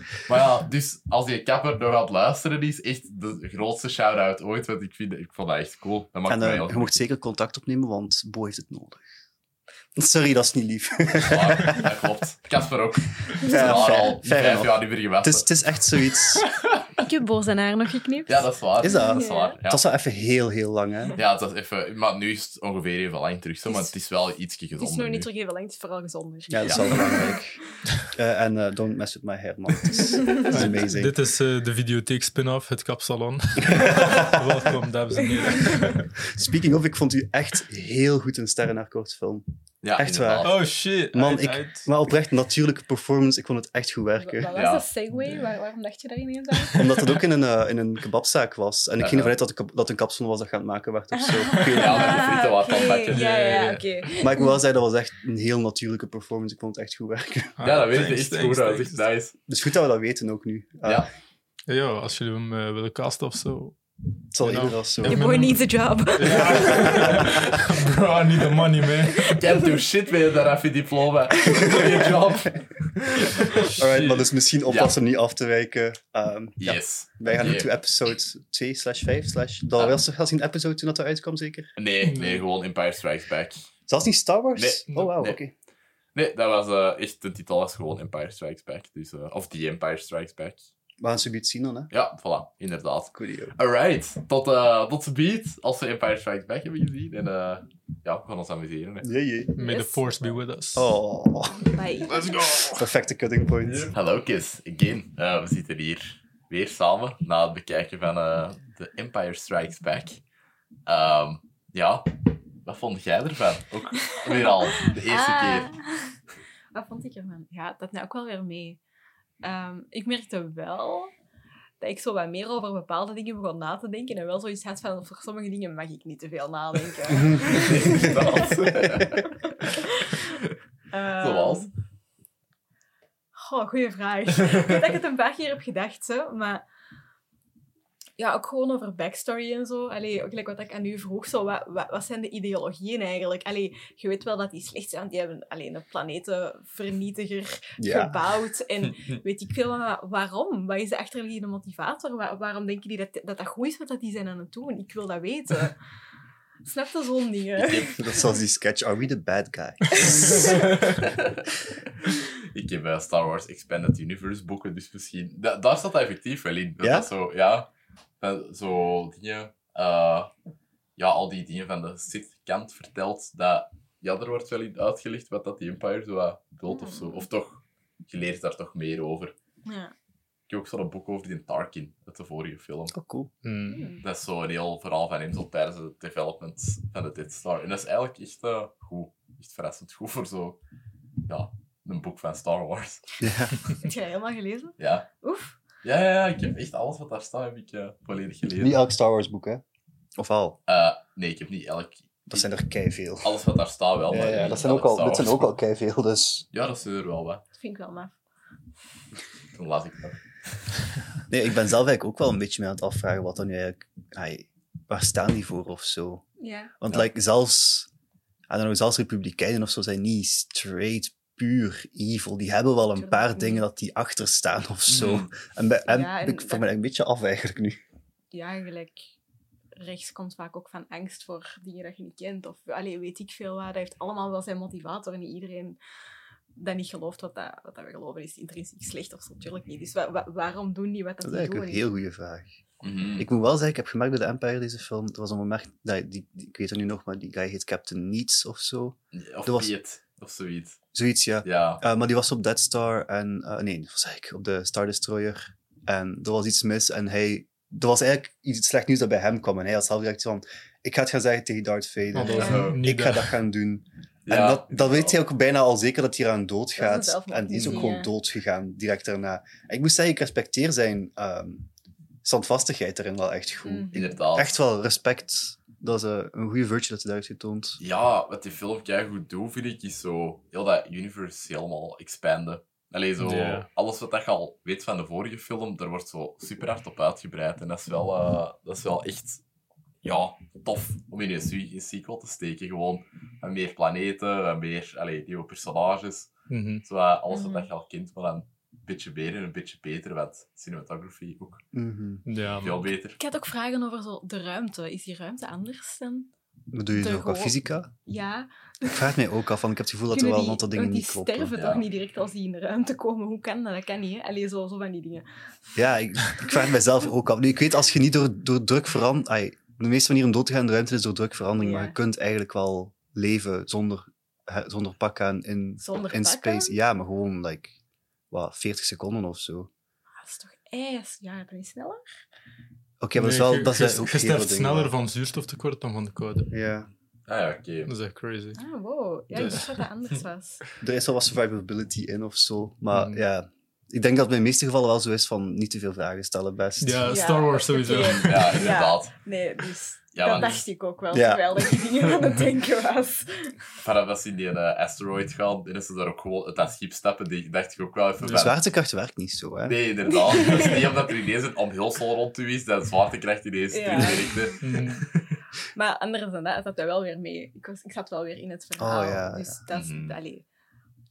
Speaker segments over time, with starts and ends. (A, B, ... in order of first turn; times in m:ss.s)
0:00.2-0:06.9 A
0:06.3-0:09.0 B
0:10.0-0:11.9 B
0:11.1-0:15.5 A
0:13.4-0:16.4 B
0:17.0-0:19.6 C
0:18.3-0:19.8 A
0:18.8-0:21.2 B
0:21.2-0:25.3 A
0:23.6-0:23.9 C
0:24.8-0:27.4 C
0:26.5-0:27.6 B
0:26.6-0:27.0 A
0:28.1-0:31.1 B
0:30.4-0:36.1 D
0:33.7-0:34.4 B
0:36.3-0:39.4 B
0:39.8-0:40.6 A
0:40.0-0:40.6 B
0:40.4-0:41.9 D
0:41.1-0:44.5 B
0:44.2-0:46.9 C
0:44.5-0:44.8 A
0:46.7-0:52.3 B
0:49.0-0:49.3 A
0:51.2-0:54.5 C
0:51.6-0:53.3 A
0:53.0-0:53.9 D
0:54.2-0:57.6 B
0:57.6-0:59.0 D
0:57.6-0:59.3 A
0:59.5-1:01.1 B
1:00.8-1:01.1 A
1:01.7-1:03.8 D
1:04.3-1:05.4 B
1:04.4-1:09.4 D
1:05.0-1:07.1 C
1:06.6-1:07.3 B
1:07.2-1:08.0 A
1:09.2-1:13.8 A
1:09.3-1:09.7 C
1:11.5-1:11.8 C
1:13.6-1:14.3 D
1:13.8-1:21.7 B
1:14.7-1:14.9 A
1:16.6-1:17.7 A
1:21.8-1:23.6 A
1:22.0-1:22.4 D
1:23.9-1:25.5 B
1:24.6-1:25.4 A
1:26.1-1:30.6 A
1:31.0-1:31.9 B
1:31.9-1:39.1 A
1:33.1-1:33.5 B
1:39.0-1:39.5 B
1:39.6-1:41.0 D
1:39.6-1:40.2 C
1:40.7-1:41.8 B
1:41.6-1:42.2 C
1:42.1-1:42.8 D
1:42.7-1:43.9 B
1:43.9-1:50.2 A
1:50.8-1:55.7 A
1:54.1-1:56.2 C
1:56.7-1:58.8 C
1:59.4-2:01.1 C
2:01.8-2:08.6 C
2:07.1-2:08.2 B
2:07.4-2:09.3 A
2:09.2-2:10.3 C
2:10.9-2:11.7 C
2:11.2-2:11.7 A
2:13.3-2:16.6 C
2:18.2-2:35.7 C
2:27.8-2:28.2 B
2:36.6-2:38.1 C
2:37.6-2:37.9 A
2:37.9-2:40.6 B
2:40.0-2:40.6 C
2:40.3-2:41.4 A
2:42.0-2:50.3 A
2:46.8-2:47.1 B
2:51.0-2:59.3 A
2:56.7-2:57.3 C
2:59.6-2:59.9 C
3:00.5-3:02.9 A
3:02.9-3:03.3 B
3:03.4-3:03.9 D
3:03.7-3:04.0 C
3:04.0-3:10.6 A
3:11.3-3:13.2 A
3:13.2-3:13.5 B
3:13.8-3:15.6 C
3:14.8-3:15.1 A
3:15.8-3:18.8 A
3:18.6-3:19.6 B
3:20.2-3:20.6 B
3:20.7-3:22.5 A
3:22.3-3:23.4 B
3:23.2-3:25.5 A
3:24.1-3:26.5 B
3:26.5-3:27.4 A
3:27.6-3:28.2 C
3:29.5-3:30.2 A
3:31.3-3:36.2 B
3:36.4-3:36.7 C
3:36.8-3:37.9 B
3:38.5-3:47.8 B
3:43.0-3:43.6 C
3:44.9-3:45.3 A
3:45.9-3:46.6 C
3:48.3-3:49.1 C
3:49.8-3:55.8 C
3:56.5-4:01.9 C
4:01.2-4:02.6 B
4:02.8-4:03.3 A
4:03.2-4:09.7 B
4:09.1-4:10.8 A
4:10.9-4:31.7 B
4:11.4-4:11.8 A
4:22.1-4:23.3 D
4:22.2-4:22.7 C
4:22.3-4:22.8 A
4:24.2-4:25.2 A
4:26.8-4:28.1 C
4:32.2-4:37.8 B
4:33.6-4:34.1 C
4:33.9-4:34.5 A
4:37.8-4:49.4 A
4:43.2-4:43.7 D
4:50.0-4:56.3 A
4:56.5-4:56.8 D
4:56.8-5:01.6 A
4:57.3-4:57.7 C
5:01.7-5:02.2 B
5:02.2-5:02.8 D
5:02.6-5:03.2 A
5:03.2-5:06.3 C
5:06.7-5:07.9 B
5:06.9-5:09.1 C
5:08.8-5:11.6 B
5:10.1-5:15.2 C
5:11.5-5:11.8 A
5:15.7-5:27.7 B
5:21.6-5:22.0 C
5:25.8-5:26.8 C
5:28.3-5:29.7 B
5:30.2-5:32.0 C
5:33.0-5:34.9 B
5:33.2-5:36.5 D
5:36.5-5:36.9 B
5:37.3-5:37.9 A
5:37.8-5:38.6 D
5:38.5-5:40.6 C
5:39.3-5:39.7 D
5:40.8-5:47.3 B
5:42.9-5:43.2 D
5:46.8-5:48.6 D
5:47.1-5:53.6 C
5:47.9-5:49.1 A
5:50.1-5:50.6 A
5:51.1-5:51.7 B
5:53.8-5:58.6 A
5:58.2-5:59.8 B
5:59.6-6:05.3 A
6:00.1-6:01.0 C
6:03.7-6:04.6 C
6:04.6-6:05.0 D
6:05.7-6:10.4 C
6:08.8-6:09.6 B
6:09.7-6:10.2 A